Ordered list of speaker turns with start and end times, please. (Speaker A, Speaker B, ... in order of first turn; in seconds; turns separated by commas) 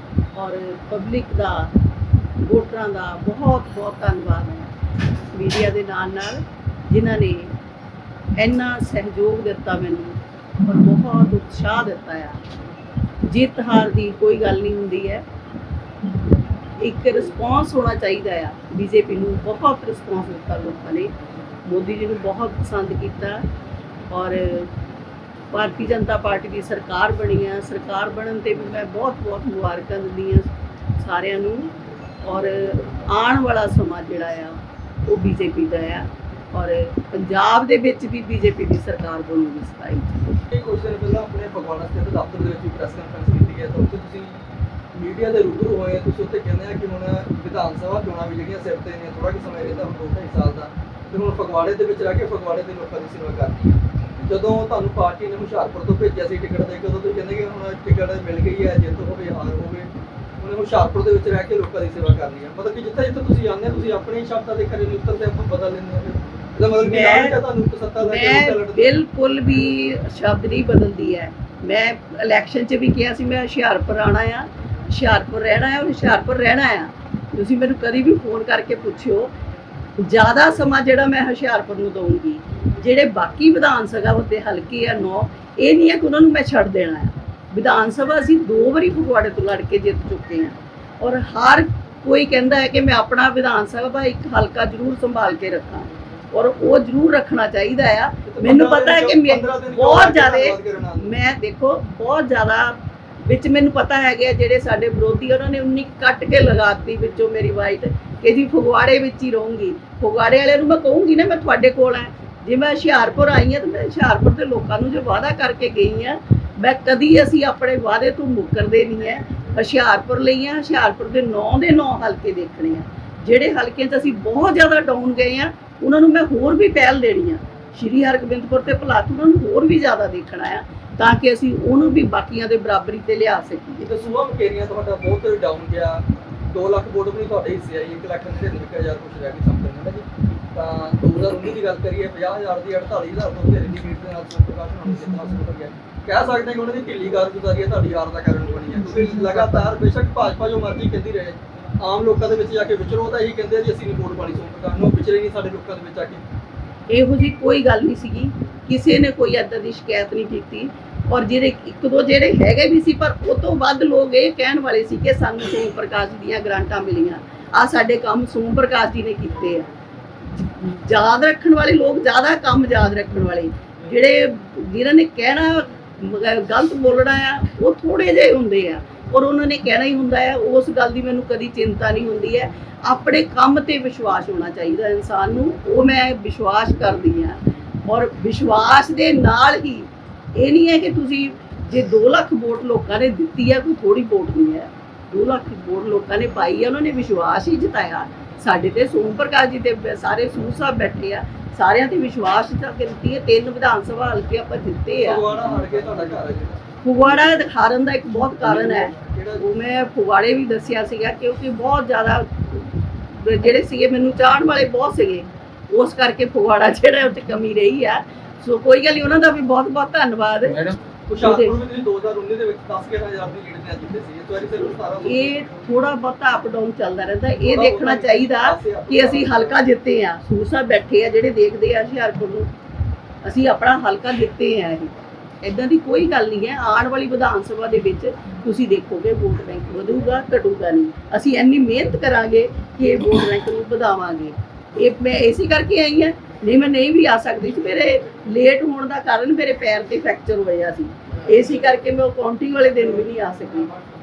Speaker A: 0.4-1.7, Speaker A: 2.4-4.7, Speaker A: 5.3-7.5, Speaker A: 8.4-12.4, Speaker A: 13.3-15.2, Speaker A: 16.8-21.1, Speaker A: 21.7-23.5, Speaker A: 24.1-24.7, Speaker A: 25.5-30.5, Speaker A: 31.0-31.7, Speaker A: 32.2-40.4, Speaker B: 40.5-44.4, Speaker B: 45.0-59.9, Speaker B: 60.4-68.9, Speaker A: 66.8-67.4, Speaker A: 68.0-79.3, Speaker A: 80.0-133.9, Speaker B: 98.3-101.1, Speaker B: 133.8-156.2, Speaker A: 156.9-169.7, Speaker A: 170.4-205.2, Speaker B: 205.0-207.2, Speaker A: 206.8-221.6, Speaker B: 208.4-209.4, Speaker B: 221.1-225.4, Speaker A: 225.1-232.5, Speaker B: 227.4-229.6, Speaker A: 233.2-234.9, Speaker A: 235.4-253.7